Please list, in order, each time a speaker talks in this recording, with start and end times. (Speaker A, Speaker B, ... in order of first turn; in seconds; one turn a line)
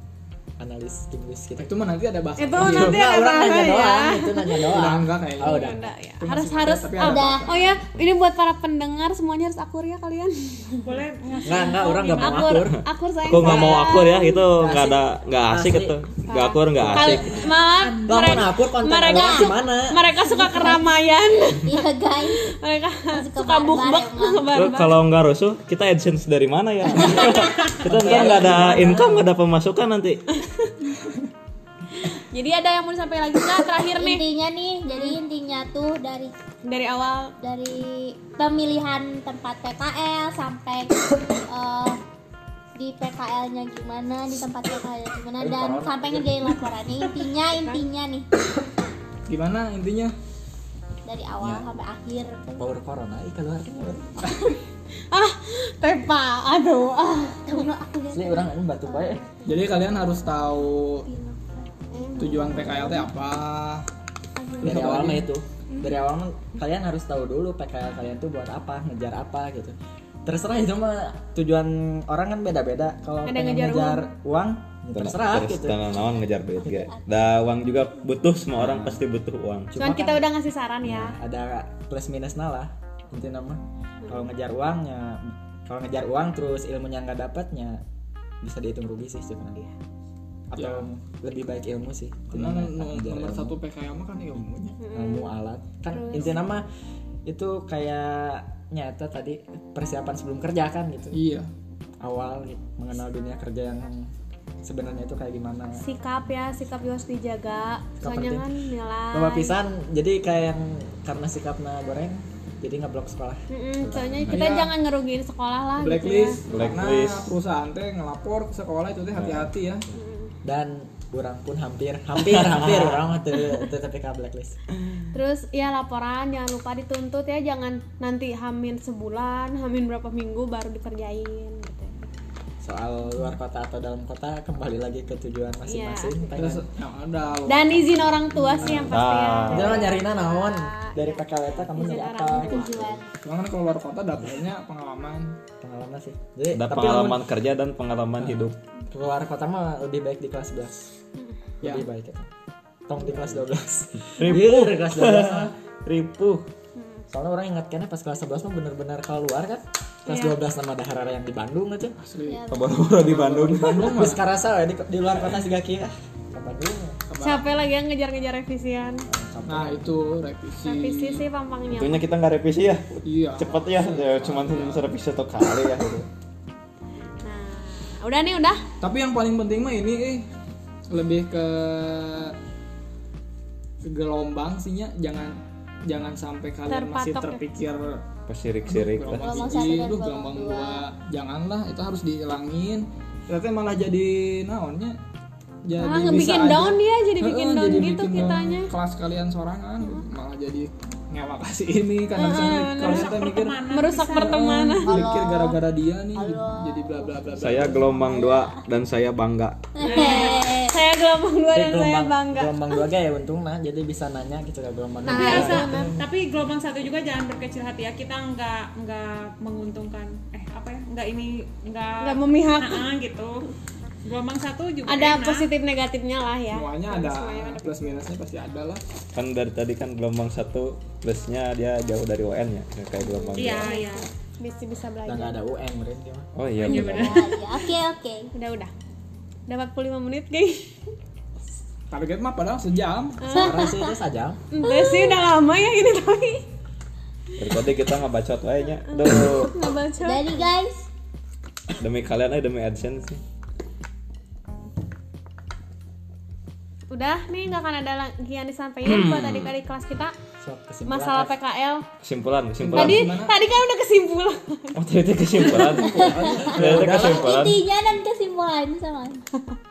Speaker A: 0.6-1.7
Speaker B: 1.6-3.1
Speaker C: 2.4-4.7
Speaker A: 2.5-5.9
Speaker B: 4.7-7.8
Speaker C: 5.4-10.8
Speaker D: 7.0-7.4
Speaker E: 10.8-12.5
Speaker A: 11.4-16.0
Speaker C: 11.6-14.4
Speaker F: 13.3-17.5
Speaker C: 16.3-24.9
Speaker A: 16.7-20.0
Speaker D: 19.0-19.5
Speaker D: 20.2-22.4
Speaker D: 23.1-24.6
Speaker F: 24.5-30.2
Speaker A: 26.9-29.3
Speaker C: 27.0-27.7
Speaker D: 27.2-27.7
Speaker C: 32.0-34.2
Speaker D: 34.0-36.3
Speaker C: 34.9-35.2
Speaker C: 36.6-37.3
Speaker D: 37.4-42.0
Speaker D: 42.8-48.3
Speaker A: 45.4-46.6
Speaker B: 49.3-50.1
Speaker D: 51.1-52.7
Speaker A: 51.4-51.6
Speaker A: 52.6-54.3
Speaker B: 54.2-54.5
Speaker C: 55.1-57.7
Speaker D: 57.1-59.5
Speaker A: 58.1-59.2
Speaker B: 59.4-61.1
Speaker D: 61.1-63.0
Speaker C: 61.9-63.0
Speaker B: 62.2-63.9
Speaker C: 64.4-64.9
Speaker A: 64.6-75.8
Speaker B: 64.6-65.3
Speaker C: 73.2-74.1
Speaker F: 74.9-79.7
Speaker D: 76.6-77.0
Speaker A: 78.6-79.0
Speaker A: 79.7-80.3
Speaker C: 79.8-81.2
Speaker A: 80.8-87.8
Speaker C: 84.0-84.3
Speaker A: 88.4-89.6
Speaker A: 90.5-93.6
Speaker B: 90.5-90.9
Speaker B: 92.3-94.8
Speaker C: 94.8-95.3
Speaker A: 94.9-96.7
Speaker C: 95.9-96.3
Speaker A: 97.2-101.2
Speaker B: 101.1-101.5
Speaker A: 102.0-105.8
Speaker C: 105.8-109.5
Speaker A: 108.0-108.5
Speaker A: 109.1-114.4
Speaker C: 113.5-116.4
Speaker B: 114.3-114.7
Speaker B: 115.8-119.8
Speaker F: 116.5-117.4
Speaker F: 119.2-119.5
Speaker C: 119.9-120.3
Speaker A: 120.4-124.6
Speaker F: 122.3-123.0
Speaker C: 125.1-132.1
Speaker A: 132.6-136.7
Speaker C: 135.7-136.3
Speaker B: 136.3-138.0
Speaker C: 137.5-142.7
Speaker F: 138.6-139.9
Speaker A: 138.6-143.0
Speaker D: 142.4-143.0
Speaker B: 143.2-145.3
Speaker A: 145.6-147.2
Speaker F: 146.5-148.6
Speaker A: 148.2-150.8
Speaker A: 151.6-152.3
Speaker A: 152.9-155.5
Speaker F: 154.1-156.4
Speaker C: 156.8-157.0
Speaker A: 157.1-161.9
Speaker C: 160.1-160.3
Speaker B: 162.0-164.2
Speaker D: 162.2-162.8
Speaker F: 162.5-164.0
Speaker A: 163.9-167.0
Speaker B: 167.1-167.5
Speaker C: 167.2-169.1
Speaker A: 169.1-169.9
Speaker B: 169.5-171.2
Speaker C: 170.6-172.1
Speaker F: 171.7-176.1
Speaker B: 173.0-174.9
Speaker C: 177.2-178.6
Speaker B: 178.8-180.3
Speaker B: 180.9-182.3
Speaker B: 183.8-188.0
Speaker C: 186.7-187.4
Speaker F: 188.3-189.5
Speaker B: 188.6-195.0
Speaker D: 189.2-190.9
Speaker B: 195.7-203.6
Speaker C: 195.8-198.7
Speaker C: 202.1-203.1
Speaker E: 202.8-204.8
Speaker C: 203.7-204.9
Speaker B: 204.2-207.9
Speaker D: 204.8-205.6
Speaker D: 206.1-208.6
Speaker F: 207.4-209.7
Speaker D: 209.8-210.8
Speaker E: 209.8-210.5
Speaker C: 209.9-212.8
Speaker A: 211.5-216.0
Speaker C: 215.1-215.9
Speaker D: 215.2-215.4
Speaker E: 215.2-223.4
Speaker C: 222.0-222.8
Speaker E: 224.0-225.5
Speaker C: 224.8-228.0
Speaker B: 226.5-228.8
Speaker F: 229.1-233.7
Speaker C: 233.0-235.3
Speaker E: 233.4-234.1
Speaker A: 235.1-236.3
Speaker F: 236.3-237.2
Speaker E: 236.6-237.7
Speaker D: 236.7-238.3
Speaker C: 238.3-238.7
Speaker C: 239.5-240.7
Speaker B: 241.9-243.2
Speaker C: 243.2-243.7
Speaker A: 243.3-244.4
Speaker D: 243.4-243.7
Speaker C: 244.5-246.4
Speaker D: 244.6-245.1
Speaker F: 247.3-249.5
Speaker C: 248.9-250.4
Speaker D: 250.0-250.9
Speaker F: 251.8-253.2
Speaker C: 256.9-260.1
Speaker F: 258.8-259.5
Speaker A: 260.4-261.3
Speaker C: 260.9-261.8
Speaker F: 262.0-263.1
Speaker B: 262.6-263.3
Speaker C: 262.7-264.7
Speaker F: 264.7-267.6
Speaker B: 265.6-267.1
Speaker D: 266.0-269.2
Speaker A: 266.4-267.2